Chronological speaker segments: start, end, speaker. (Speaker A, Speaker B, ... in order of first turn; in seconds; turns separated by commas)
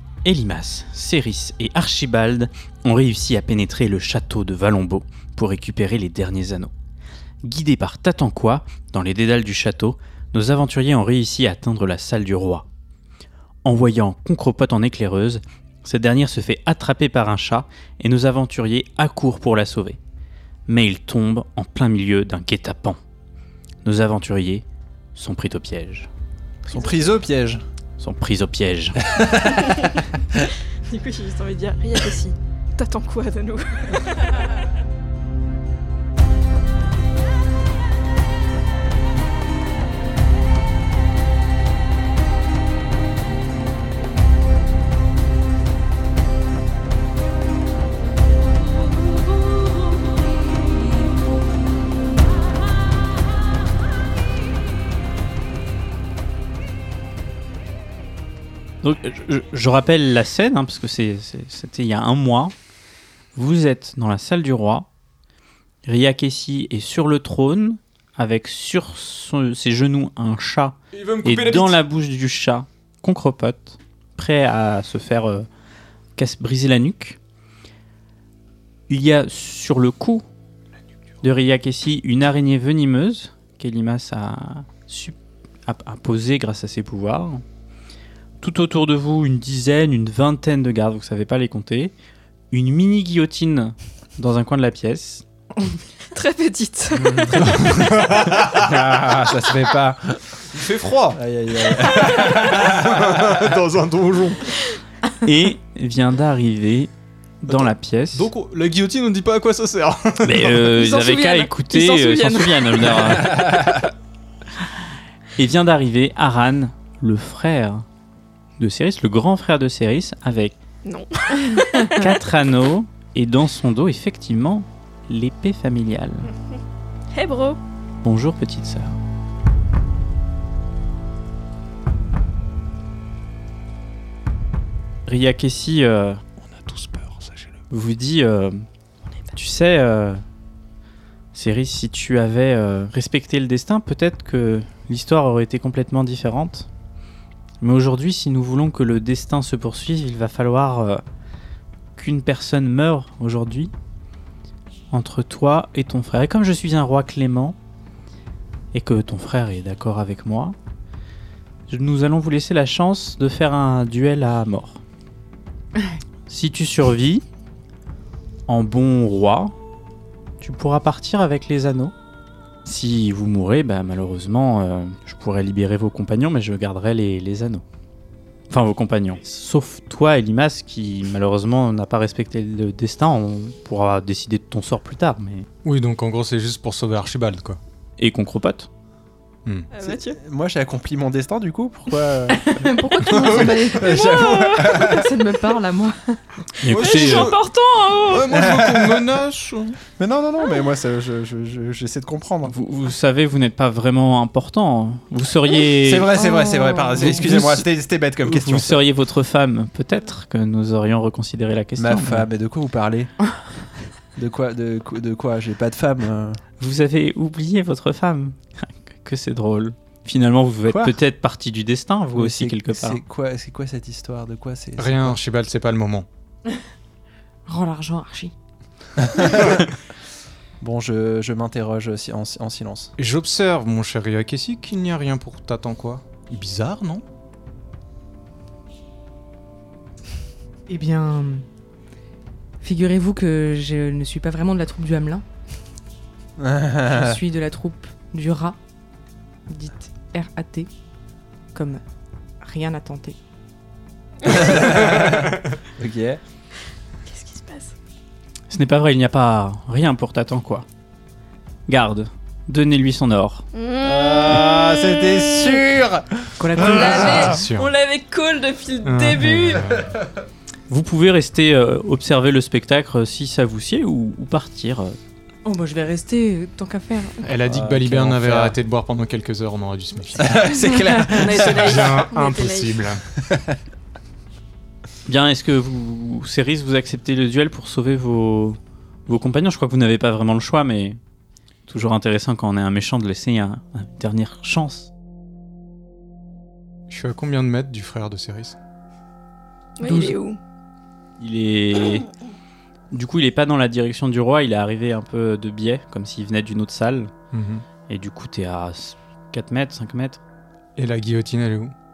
Speaker A: 0.2-6.7, Speaker A: 7.4-12.7, Speaker A: 13.6-20.0, Speaker A: 20.7-23.0, Speaker A: 23.8-26.1, Speaker B: 26.7-27.6, Speaker C: 26.7-27.0, Speaker A: 28.0-29.1, Speaker B: 29.0-29.9, Speaker C: 30.9-34.2, Speaker A: 58.8-62.5, Speaker A: 63.4-64.9, Speaker A: 65.8-75.5, Speaker D: 70.9-71.8, Speaker A: 76.2-77.2, Speaker A: 78.9-80.2, Speaker A: 81.2-87.4, Speaker A: 88.4-91.9, Speaker A: 92.5-95.2, Speaker C: 96.1-97.5, Speaker D: 97.1-98.7, Speaker B: 97.2-100.2, Speaker D: 100.5-101.2, Speaker B: 101.1-103.4, Speaker D: 101.8-104.5, Speaker A: 105.2-106.9, Speaker A: 107.4-108.3, Speaker D: 107.6-110.7, Speaker A: 110.2-113.5, Speaker C: 110.7-113.2, Speaker A: 115.4-117.9, Speaker A: 118.6-120.6, Speaker C: 120.8-122.1, Speaker A: 121.9-126.3, Speaker C: 127.1-127.6, Speaker A: 128.0-129.0, Speaker A: 135.1-136.2, Speaker D: 136.4-137.6, Speaker A: 137.7-138.7, Speaker A: 139.3-140.2, Speaker A: 141.3-146.7, Speaker A: 147.6-151.0, Speaker A: 152.0-153.7, Speaker A: 154.9-157.6, Speaker A: 158.7-160.6, Speaker A: 161.7-164.8, Speaker A: 166.3-167.2, Speaker A: 168.5-169.6, Speaker A: 170.4-171.9, Speaker A: 172.7-177.6, Speaker A: 178.5-185.5, Speaker D: 185.6-187.6, Speaker A: 188.0-188.7, Speaker C: 189.7-190.2, Speaker B: 189.8-195.1, Speaker E: 192.3-196.2, Speaker C: 193.4-194.8, Speaker A: 196.6-197.4, Speaker D: 196.7-197.4, Speaker C: 196.8-198.3, Speaker D: 197.9-199.8, Speaker B: 198.3-199.1, Speaker B: 199.9-202.5, Speaker A: 202.5-206.1, Speaker B: 205.8-208.8, Speaker E: 206.2-207.1, Speaker A: 207.1-207.6, Speaker A: 208.2-212.3, Speaker B: 211.8-213.1, Speaker B: 214.2-216.4, Speaker A: 216.6-223.0, Speaker B: 220.7-221.0, Speaker B: 222.1-225.2, Speaker D: 224.8-226.1, Speaker E: 227.5-228.3, Speaker B: 229.1-229.6, Speaker D: 229.3-229.6, Speaker B: 230.6-232.9, Speaker D: 233.0-237.0, Speaker E: 240.7-241.4, Speaker E: 242.6-245.2, Speaker B: 246.4-247.2, Speaker E: 246.9-248.6, Speaker E: 249.5-250.7, Speaker E: 251.5-251.8, Speaker E: 252.4-253.2, Speaker B: 254.3-256.2, Speaker C: 257.1-257.7, Speaker A: 258.5-260.7, Speaker A: 261.7-263.4, Speaker C: 263.5-264.4, Speaker B: 263.8-267.2, Speaker E: 266.4-267.4, Speaker C: 266.6-269.6, Speaker D: 267.1-267.7, Speaker D: 268.9-269.9, Speaker A: 270.7-275.0, Speaker E: 275.4-277.2, Speaker D: 277.2-283.0, Speaker B: 277.5-278.6, Speaker B: 280.2-281.9, Speaker C: 281.1-282.9, Speaker B: 283.2-283.6, Speaker A: 285.1-291.0, Speaker A: 291.7-294.9, Speaker D: 296.9-298.6, Speaker C: 299.8-300.4, Speaker E: 299.9-300.1, Speaker A: 301.2-302.1, Speaker A: 302.9-307.1, Speaker D: 307.3-307.6, Speaker A: 307.9-310.2, Speaker D: 310.8-311.7